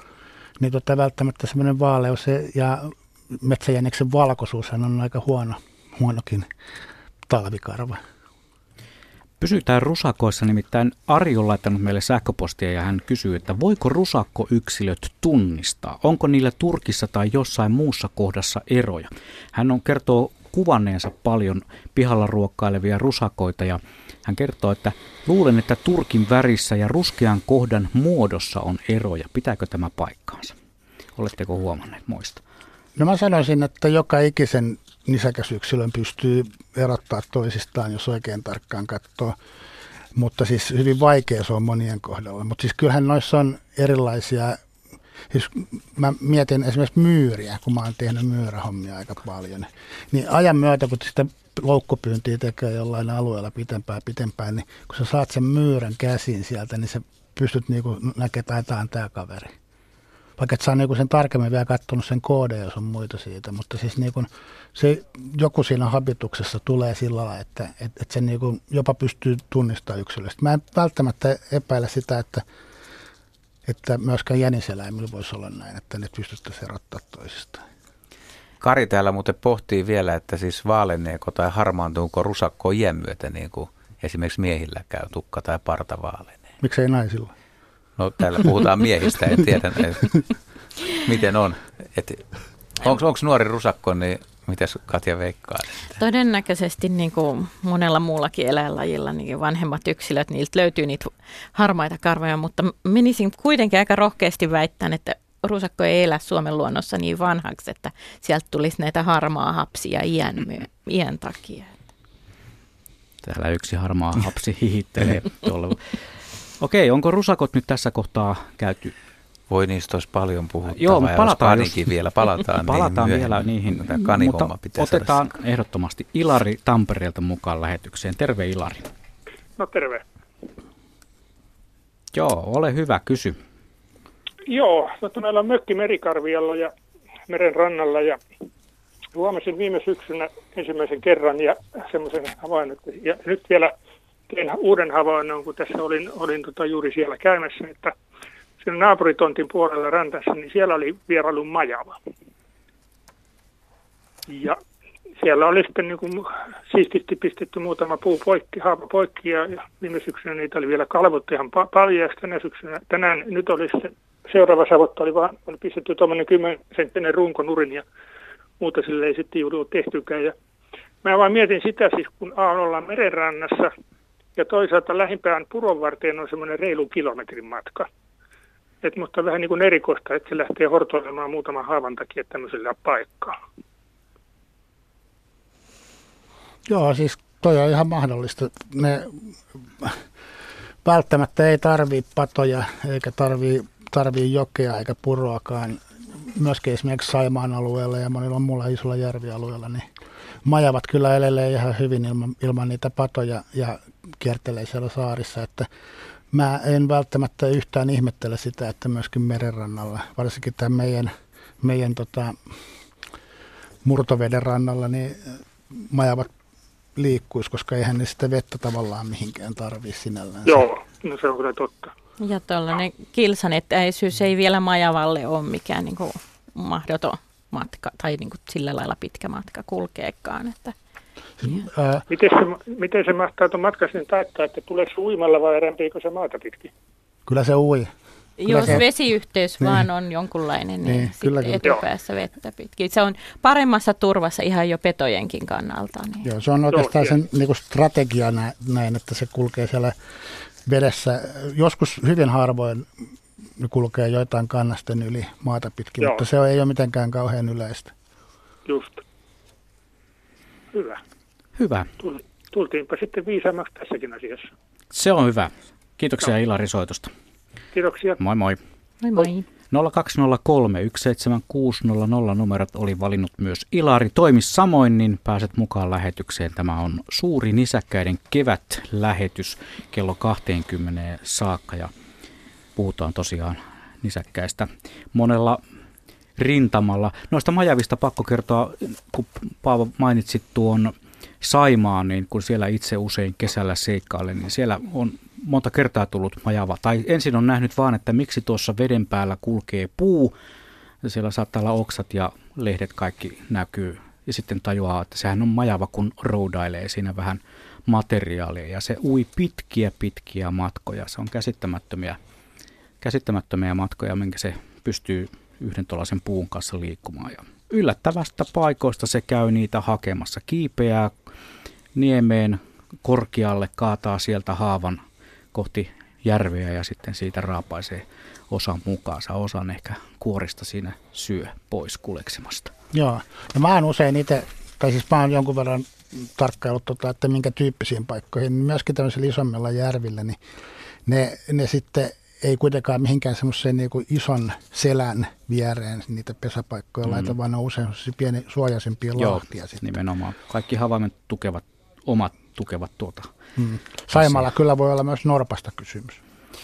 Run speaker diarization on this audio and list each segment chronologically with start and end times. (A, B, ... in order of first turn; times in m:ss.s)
0:00.6-0:06.5 A
0:07.3-0:08.0 A
0:09.4-0:30.6 B
0:31.2-0:32.4 B
0:33.0-0:39.4 A
0:40.2-0:44.6 A
0:45.3-0:59.5 A
1:00.4-1:12.4 A
1:13.7-1:17.6 A
1:18.6-1:26.4 C
1:26.6-1:27.3 A
1:28.0-1:30.2 C
1:30.9-1:32.2 C
1:32.8-1:36.0 C
1:36.0-1:51.7 D
1:53.2-1:56.0 B
1:56.6-1:58.9 B
1:59.5-2:05.2 C
2:00.7-2:08.9 B
2:09.6-2:10.0 E
2:12.1-2:13.4 B
2:14.5-2:16.7 E
2:17.3-2:18.2 E
2:19.2-2:23.7 E
2:24.3-2:28.0 E
2:28.6-2:32.0 E
2:34.3-2:34.6 E
2:35.2-2:47.8 E
2:48.6-2:50.4 E
2:51.0-2:53.7 E
2:54.4-2:57.9 E
2:58.8-3:03.4 E
3:06.7-3:10.0 A
3:10.8-3:19.8 A
3:20.4-3:25.7 A
3:26.3-3:32.4 A
3:33.8-3:36.3 A
3:37.0-3:40.6 A
3:40.4-3:41.9 E
3:42.2-3:50.8 D
3:51.4-3:52.1 A
3:52.1-3:56.7 E
3:57.3-3:57.9 A
3:58.4-4:06.3 D
3:58.4-3:58.8 A
4:00.8-4:01.6 A
4:06.2-4:10.0 A
4:06.7-4:07.2 E
4:10.6-4:12.9 A
4:13.6-4:17.9 A
4:16.0-4:16.2 E
4:18.7-4:19.0 E
4:20.7-4:21.0 E
4:21.6-4:21.9 B
4:22.0-4:24.5 E
4:24.9-4:27.1 B
4:27.7-4:28.2 E
4:28.2-4:28.6 B
4:29.0-4:29.5 D
4:29.7-4:41.9 B
4:42.8-4:45.6 B
4:46.4-5:00.3 B
5:01.0-5:12.2 B
5:13.0-5:21.1 B
5:22.0-5:25.0 B
5:25.5-5:32.7 B
5:32.9-5:40.4 A
5:41.1-5:49.9 A
5:47.1-5:47.3 B
5:49.2-5:53.3 B
5:53.6-5:56.2 A
5:54.1-5:54.4 B